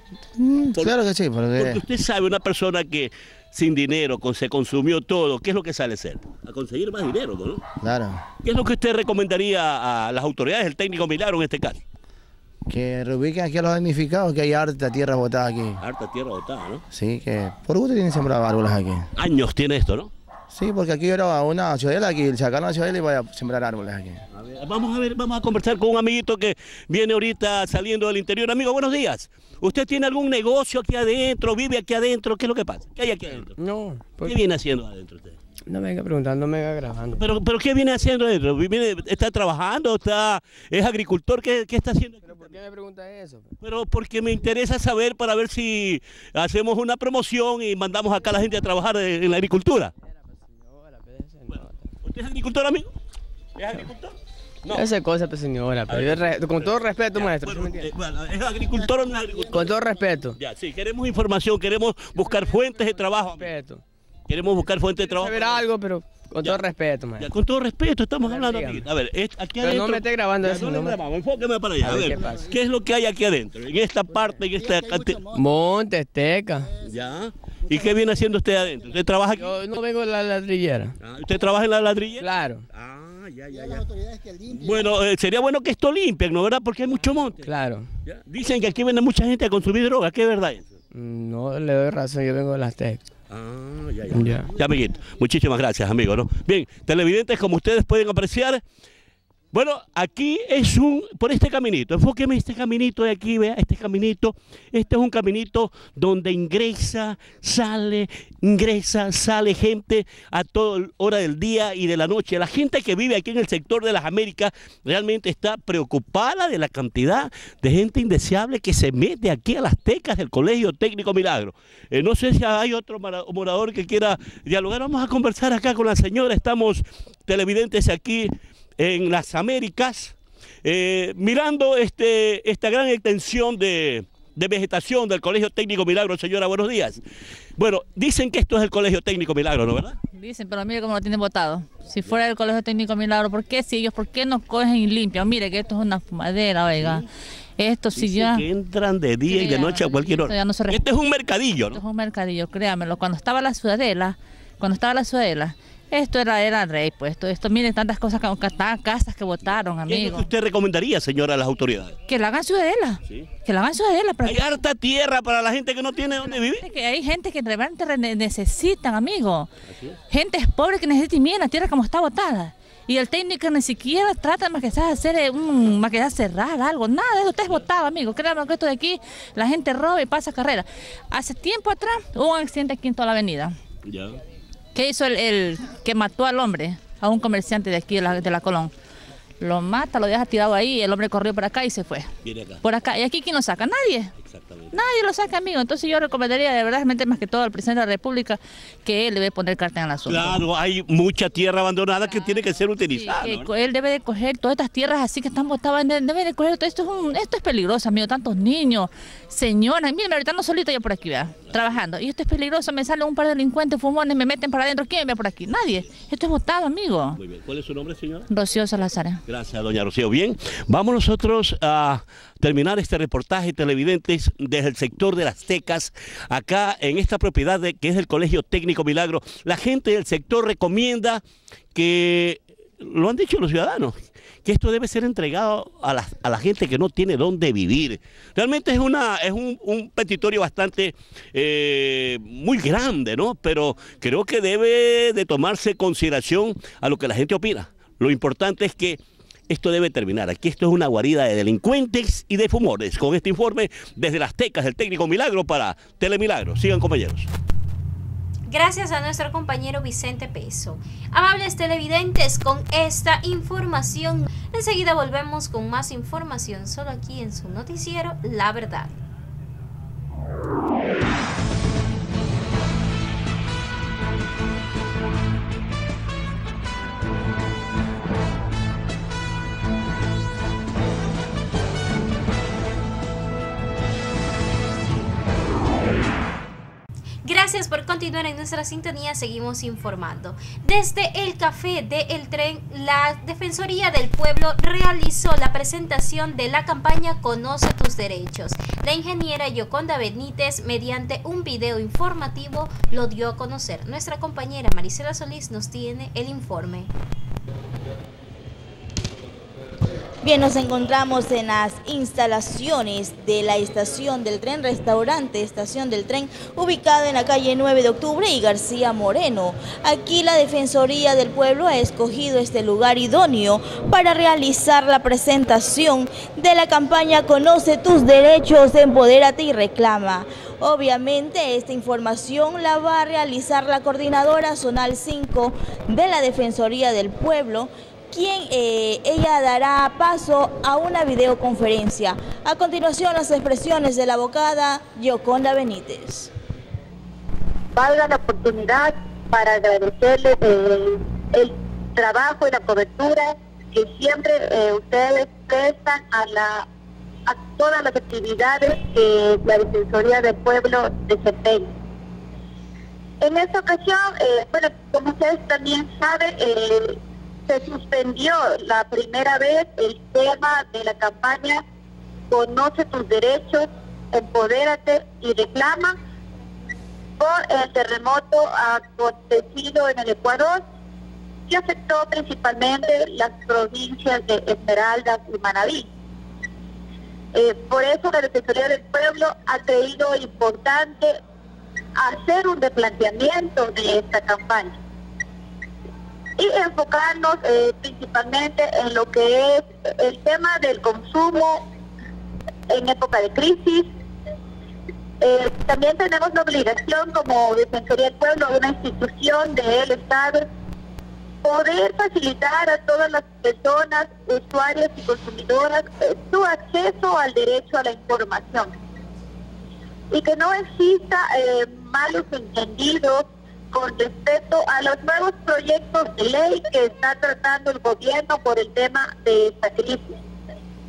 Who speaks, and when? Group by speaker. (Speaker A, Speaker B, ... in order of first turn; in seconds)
Speaker A: 0.4-1.8, 7.8-8.2, 12.7-15.8, 16.9-19.1, 20.5-24.2
Speaker B: 1.5-7.7, 8.4-11.8, 15.8-16.8, 19.1-20.1, 24.3-33.5, 34.2-35.4, 37.1-42.5, 43.6-49.9, 52.0-52.9, 53.6-54.8, 55.9-59.7, 60.3-63.5, 64.3-65.6, 67.2-75.3, 76.8-79.5, 81.0-83.9, 84.4-87.5, 88.0-90.7, 93.3-98.6, 99.5-137.0, 137.6-140.0, 147.9-151.8, 159.9-162.0, 164.2-166.6, 183.8-184.2, 192.2-192.6, 194.2-194.7, 200.1-203.5, 217.2-218.3, 219.3-231.2, 231.7-257.3
Speaker C: 33.3-34.4, 35.7-37.2, 42.2-43.5, 50.0-51.9, 54.7-57.9, 59.5-60.4, 63.2-63.8, 65.2-67.3, 68.2-68.8, 69.6-71.0, 71.8-72.5, 75.3-76.7, 79.4-80.9, 82.2-82.6, 87.4-87.9, 90.9-93.0, 94.1-94.5
Speaker D: 140.1-147.0, 147.6-148.4, 149.3-150.8, 151.7-160.3, 162.1-164.4, 166.3-169.5, 170.1-183.6, 184.7-188.7, 189.4-192.1, 192.6-194.1, 194.7-200.4, 202.1-202.4, 202.9-217.2, 218.3-219.2
Speaker E: 258.5-269.0, 287.2-306.9
Speaker F: 310.2-346.3
Speaker G: 347.8-356.6, 357.3-361.7, 363.2-371.6, 372.3-375.9, 377.2-380.6, 381.5-385.9, 387.3-391.2, 392.0-394.8, 396.4-401.6, 402.7-403.9, 405.2-410.4, 411.4-418.7, 420.1-430.2